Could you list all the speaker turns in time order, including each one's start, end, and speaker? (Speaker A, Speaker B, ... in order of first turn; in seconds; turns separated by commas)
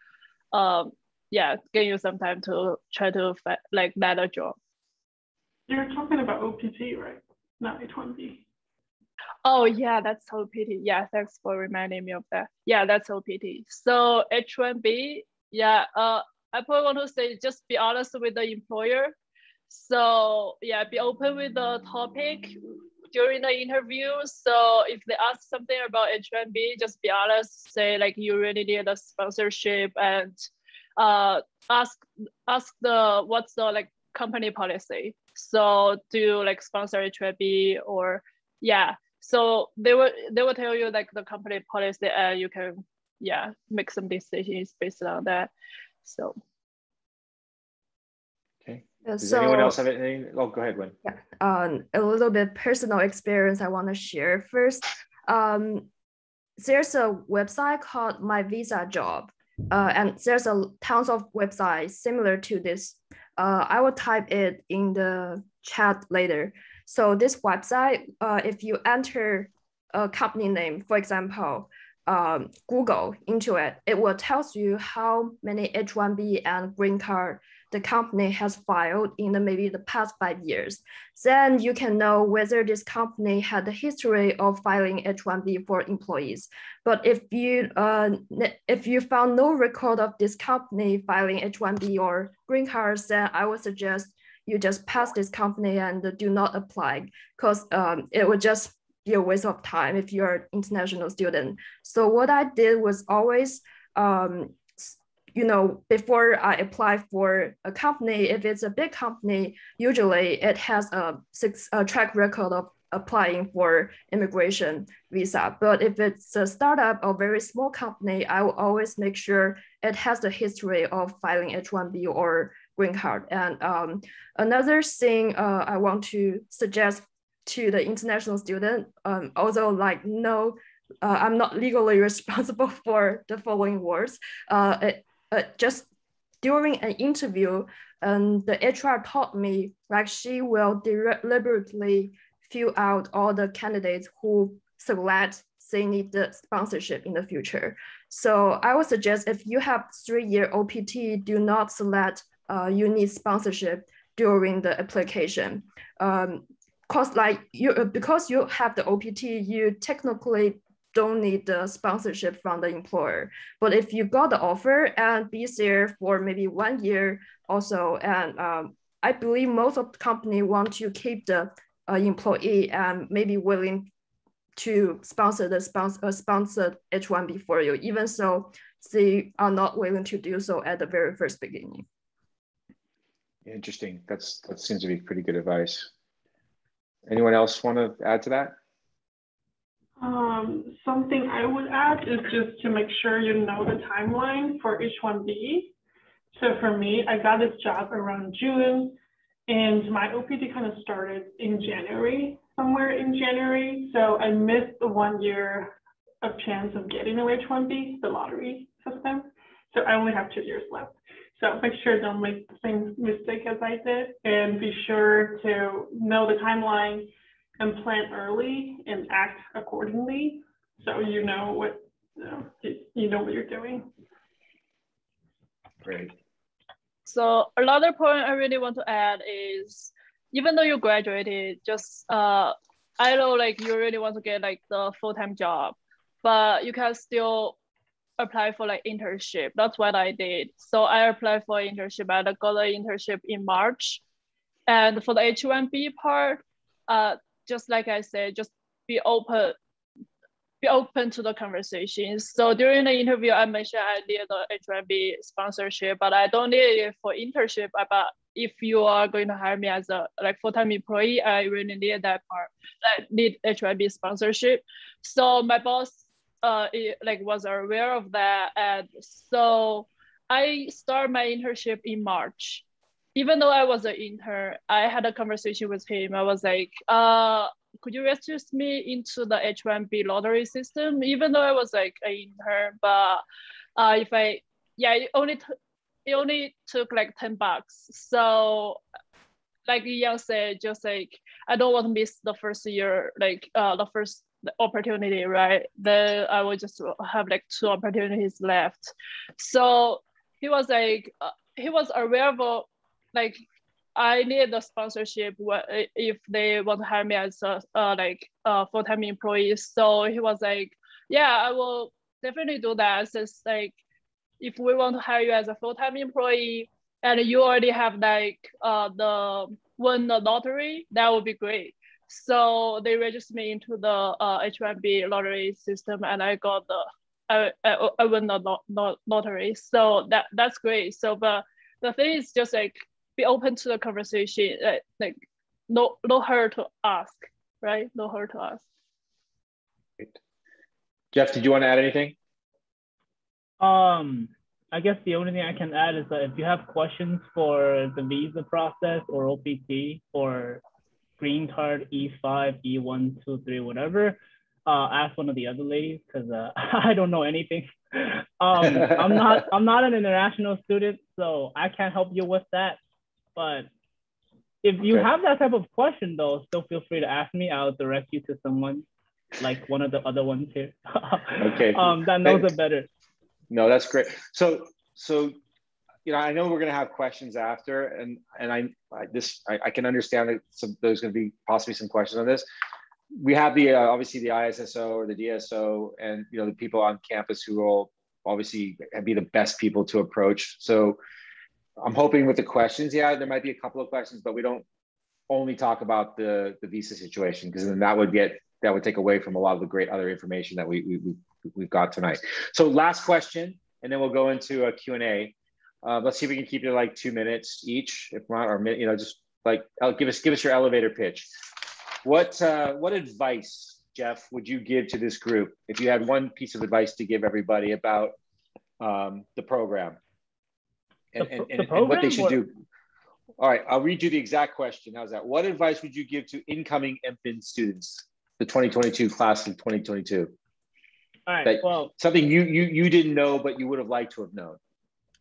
Speaker A: 0.5-4.6, Speaker B: 5.7-8.4, Speaker A: 9.4-19.1, Speaker A: 19.7-22.6, Speaker A: 23.1-30.4, Speaker A: 31.0-45.5, Speaker A: 46.0-46.4, Speaker C: 48.6-51.0, Speaker D: 49.0-49.8, Speaker D: 51.0-55.9, Speaker D: 56.6-135.9, Speaker D: 136.4-173.9, Speaker D: 174.6-181.8, Speaker C: 183.4-185.9, Speaker C: 187.1-188.6, Speaker B: 190.0-195.7, Speaker B: 196.3-199.0, Speaker B: 199.5-223.9, Speaker C: 225.8-226.1, Speaker A: 227.1-237.6, Speaker A: 238.2-244.0, Speaker A: 244.7-249.6, Speaker A: 250.6-272.6, Speaker A: 273.1-283.2, Speaker A: 283.8-285.5, Speaker A: 286.1-288.8, Speaker A: 289.7-303.4, Speaker A: 304.0-313.8, Speaker A: 314.4-338.6, Speaker C: 341.1-342.2, Speaker E: 343.6-350.6, Speaker E: 351.2-362.8, Speaker E: 363.4-363.7, Speaker E: 364.6-368.8, Speaker C: 364.8-365.1, Speaker E: 369.4-372.9, Speaker C: 371.4-372.5, Speaker C: 373.5-375.4, Speaker C: 376.1-382.5, Speaker C: 383.1-391.0, Speaker C: 391.8-394.6, Speaker C: 395.3-411.3, Speaker C: 412.0-418.1, Speaker C: 418.8-420.0, Speaker C: 421.1-422.5, Speaker E: 421.2-422.4, Speaker C: 423.4-430.3, Speaker E: 431.3-431.9, Speaker C: 431.4-434.6